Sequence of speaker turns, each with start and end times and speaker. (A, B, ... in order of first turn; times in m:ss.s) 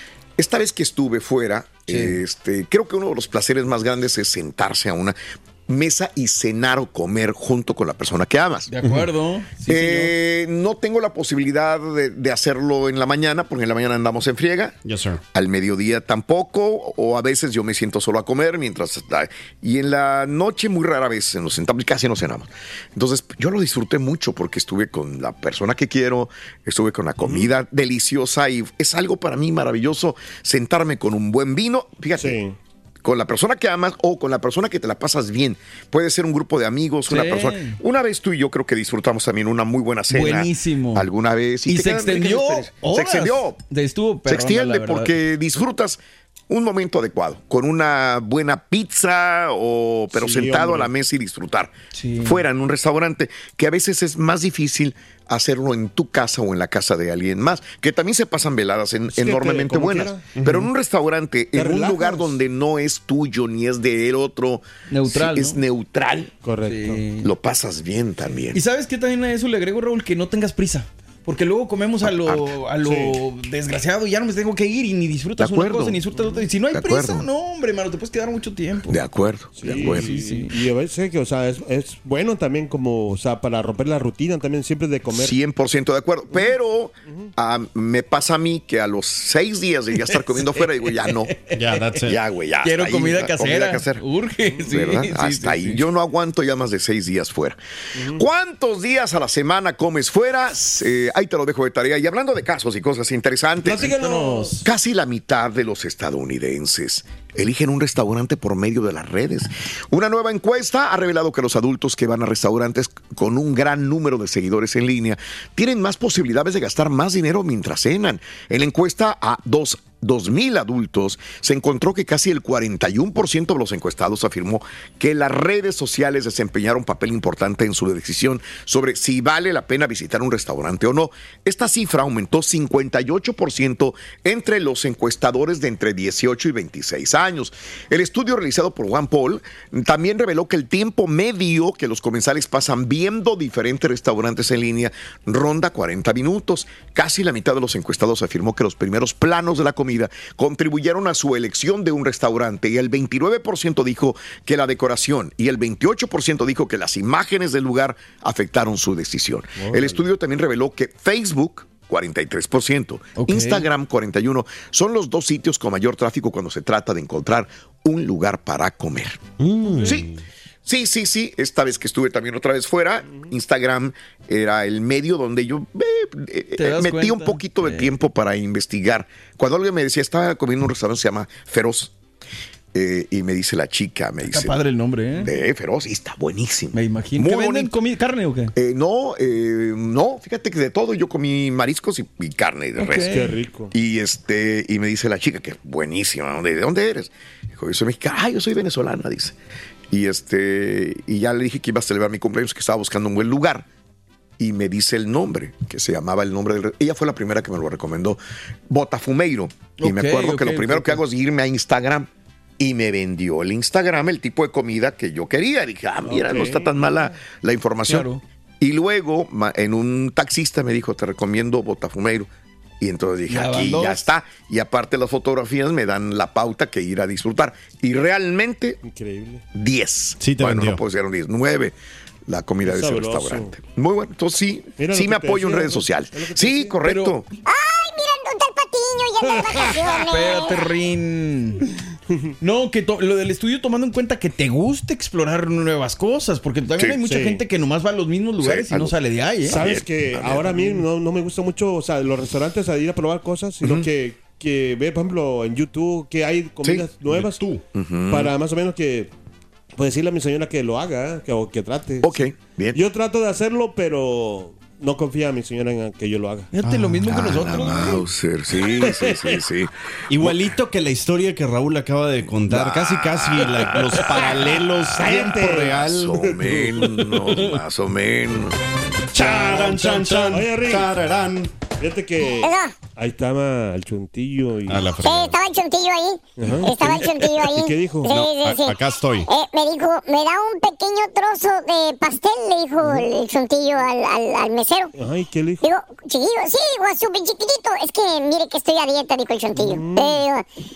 0:00.4-0:08.7 A
0:01.9-0:02.2 B
0:08.7-0:10.1 B
0:09.6-0:14.8 A
0:14.8-0:15.2 C
0:15.3-0:32.4 A
0:27.2-0:27.5 D
0:32.2-0:32.6 D
0:33.0-0:43.6 A
0:37.1-0:37.8 B
0:40.1-0:41.1 B
0:41.7-0:45.1 B
0:44.2-1:06.3 A
0:50.1-0:50.9 D
0:51.9-0:52.4 B
0:59.1-1:00.3 D
1:00.3-1:00.7 C
1:01.5-1:02.4 D
1:04.9-1:05.6 B
1:06.4-1:07.0 D
1:06.6-1:07.3 B
1:07.2-1:08.6 A
1:08.5-1:18.9 B
1:12.0-1:12.5 A
1:12.8-1:13.2 D
1:15.4-1:16.0 A
1:16.1-1:16.4 D
1:16.7-1:17.3 A
1:18.9-1:20.1 A
1:19.6-1:25.4 D
1:19.6-1:20.6 B
1:25.1-1:31.3 A
1:30.5-1:32.0 B
1:31.5-1:32.2 C
1:32.0-1:34.0 A
1:32.6-1:35.8 B
1:34.6-1:43.9 A
1:38.0-1:38.2 D
1:43.6-1:44.6 D
1:43.8-1:44.6 B
1:44.6-2:49.3 A
2:39.6-2:40.0 D
2:43.2-2:43.6 B
2:49.4-2:50.2 C
2:49.8-2:50.1 A
2:50.6-3:01.9 A
2:56.6-2:57.9 B
3:02.7-3:04.6 A
3:04.2-3:05.3 B
3:05.1-3:07.7 A
3:06.7-3:08.5 B
3:08.5-3:19.4 A
3:12.8-3:13.3 B
3:13.1-3:13.7 D
3:19.9-3:23.6 A
3:24.4-3:38.1 A
3:29.8-3:31.0 B
3:36.0-3:36.7 D
3:37.9-3:38.2 B
3:38.6-3:42.3 A
3:42.8-3:48.8 A
3:43.3-3:44.1 B
3:48.8-3:49.4 D
3:49.5-3:51.7 A
3:50.2-3:50.8 C
3:52.2-3:57.3 A
3:52.6-3:53.5 D
3:54.8-3:56.8 D
3:56.8-3:57.2 B
3:57.4-4:00.6 E
3:59.2-3:59.9 D
4:00.1-4:01.7 B
4:02.4-4:09.6 B
4:07.0-4:07.4 D
4:08.4-4:10.8 A
4:09.4-4:17.4 D
4:13.6-4:13.9 A
4:16.6-4:16.9 A
4:17.0-4:17.6 C
4:17.7-4:18.3 A
4:18.1-4:19.1 D
4:19.8-4:22.2 D
4:22.0-4:22.8 A
4:22.7-4:26.5 D
4:26.5-4:28.0 B
4:26.7-4:27.0 C
4:27.0-4:30.6 A
4:28.7-4:29.3 D
4:30.1-4:36.2 C
4:32.2-4:34.1 A
4:33.8-4:37.1 D
4:34.8-4:35.1 A
4:35.7-4:38.6 A
4:39.1-4:41.5 C
4:39.2-4:40.9 D
4:41.8-4:44.9 D
4:42.3-4:42.8 E
4:44.7-4:45.4 C
4:44.9-4:54.9 E
4:46.4-4:48.2 D
4:46.6-4:47.1 B
4:48.0-4:49.3 C
4:55.0-4:55.6 D
4:55.6-5:00.4 E
4:59.6-5:00.2 D